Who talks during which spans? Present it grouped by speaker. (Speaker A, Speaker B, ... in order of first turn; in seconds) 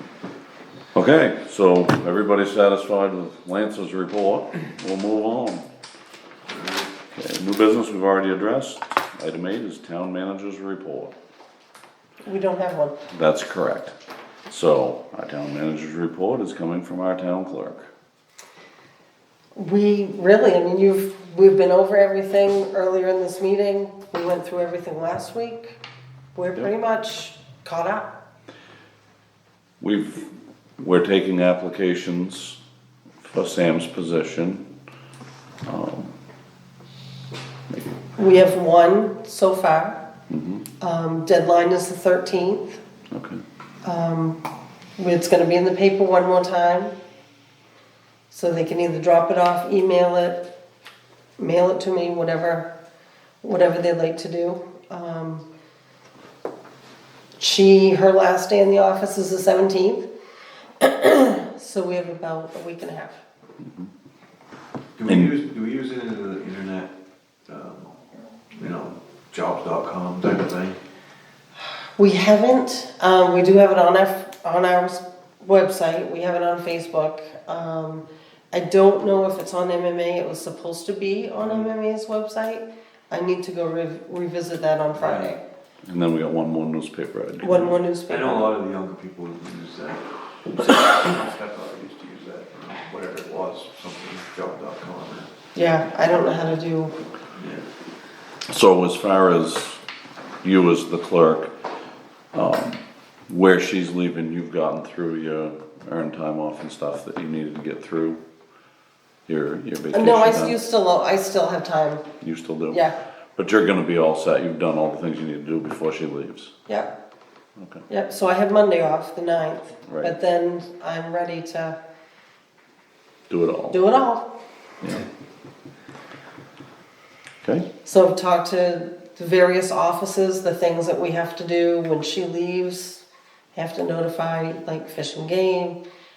Speaker A: 0.9-5.7, 7.1-11.1, 13.1-13.9, 14.5-17.9, 29.8-32.6, 33.2-34.7, 35.7-36.1, 37.7-38.0, 40.3-40.7, 43.1-43.4, 65.1-65.3, 85.9-87.8, 98.5-99.8, 100.4-101.5, 102.3-108.2, 109.3-110.6, 112.2-112.8, 113.4-116.5, 117.6-117.8, 119.9-120.1, 123.3-123.8
Speaker B: 6.5-6.9, 65.0-66.9, 67.5-68.0, 68.5-70.8, 85.0-85.3, 88.1-95.3, 97.3-97.7
Speaker C: 12.2-12.9, 19.6-25.8, 26.4-28.1, 38.2-40.0, 40.8-42.8, 43.8-44.4, 45.0-46.9, 48.3-50.5, 51.4-52.7, 53.4-55.5, 57.4-60.1, 60.8-63.2, 72.0-85.4, 87.4-88.6, 95.5-96.9, 109.9-112.0, 117.9-121.8, 123.7-124.3, 127.8-133.0, 133.6-135.8